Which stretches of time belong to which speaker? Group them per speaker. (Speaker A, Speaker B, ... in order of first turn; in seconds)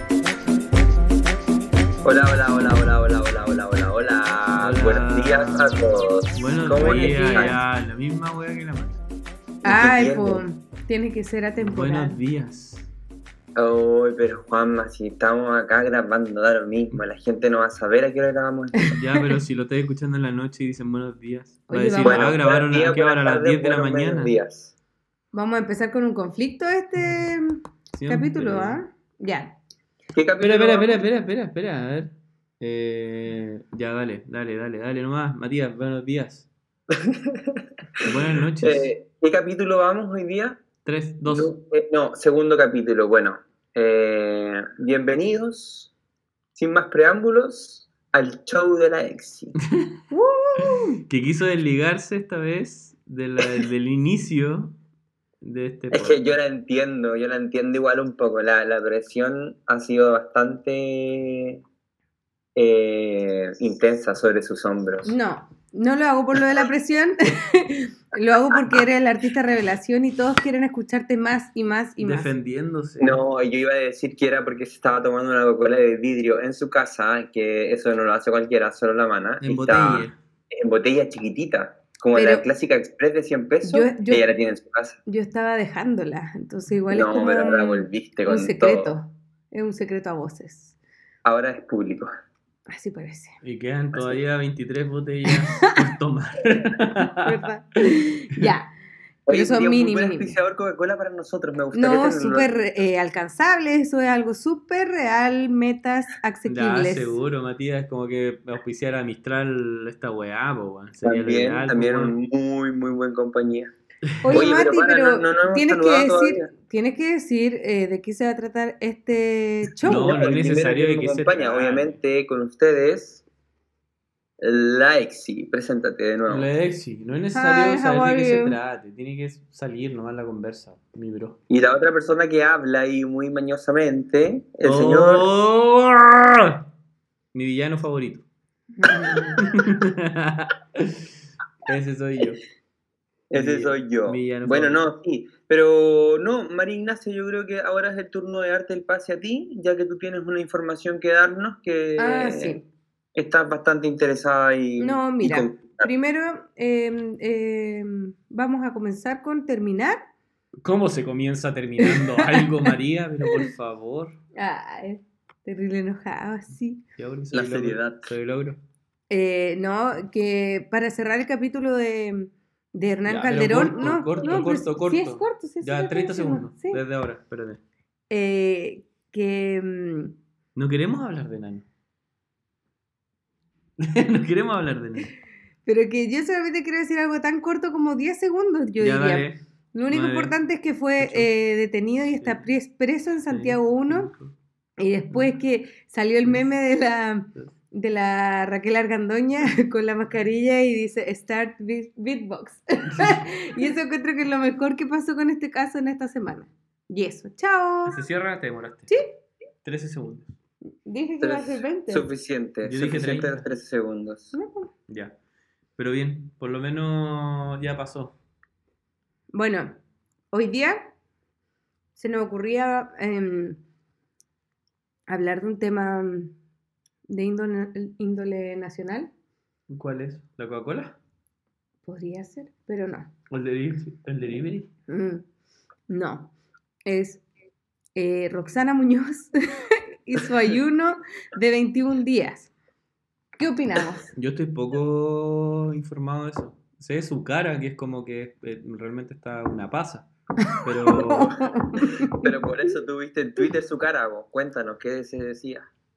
Speaker A: 2.0-7.6, 9.7-10.4, 13.6-18.9, 22.0-24.7, 30.1-31.1, 36.9-40.6, 41.3-45.9, 46.5-49.6, 55.9-61.6, 62.6-65.1, 66.4-66.7, 68.3-68.8, 73.0-85.0, 86.9-88.9, 91.2-92.1, 93.9-94.2, 99.3-102.6, 111.0-113.7, 114.3-116.5, 119.8-123.2, 124.4-126.5, 131.5-135.2, 143.3-152.6, 153.2-155.9, 167.3-168.1, 211.2-214.4, 252.1-255.6
Speaker B: 4.6-9.0, 11.6-12.9, 18.9-24.3, 27.9-28.8, 30.4-36.5, 38.0-38.9, 40.9-41.5, 51.1-54.7, 55.4-56.2, 72.0-73.2, 79.4-80.2, 93.4-97.3, 106.5-112.2, 114.1-114.5, 119.8-122.0, 126.3-131.4, 134.6-136.6, 137.3-138.2, 139.4-141.1, 141.7-142.4, 143.3-144.9, 160.6-164.2, 167.0-168.6, 173.1-177.6, 180.6-181.6, 183.8-185.1, 188.8-190.4, 191.0-191.3, 192.2-192.5, 193.3-194.3, 202.9-203.2, 207.9-208.9, 209.6-210.3, 212.6-213.5, 214.9-215.2, 215.8-218.2, 229.7-231.0, 233.3-234.7, 244.2-250.1, 250.6-251.4
Speaker C: 9.6-12.2, 18.8-19.4, 21.7-22.4, 25.3-29.6, 50.1-51.0, 65.1-72.3, 82.2-82.5, 83.7-84.2, 85.1-90.8, 92.7-93.4, 97.2-98.7, 99.3-100.3, 101.7-107.2, 114.2-120.2, 127.3-128.6, 138.8-139.4, 152.0-152.6, 154.8-160.0, 161.8-162.7, 164.4-166.8, 169.1-176.8, 178.1-180.1, 185.7-194.1, 194.8-208.0, 210.8-212.1, 214.3-214.7, 219.3-219.8, 220.3-220.9, 222.0-223.6, 225.1-226.3, 227.1-229.1, 231.9-233.1, 234.9-235.2, 235.9-236.3, 236.9-237.2, 238.0-242.5, 243.4-244.1, 250.5-252.3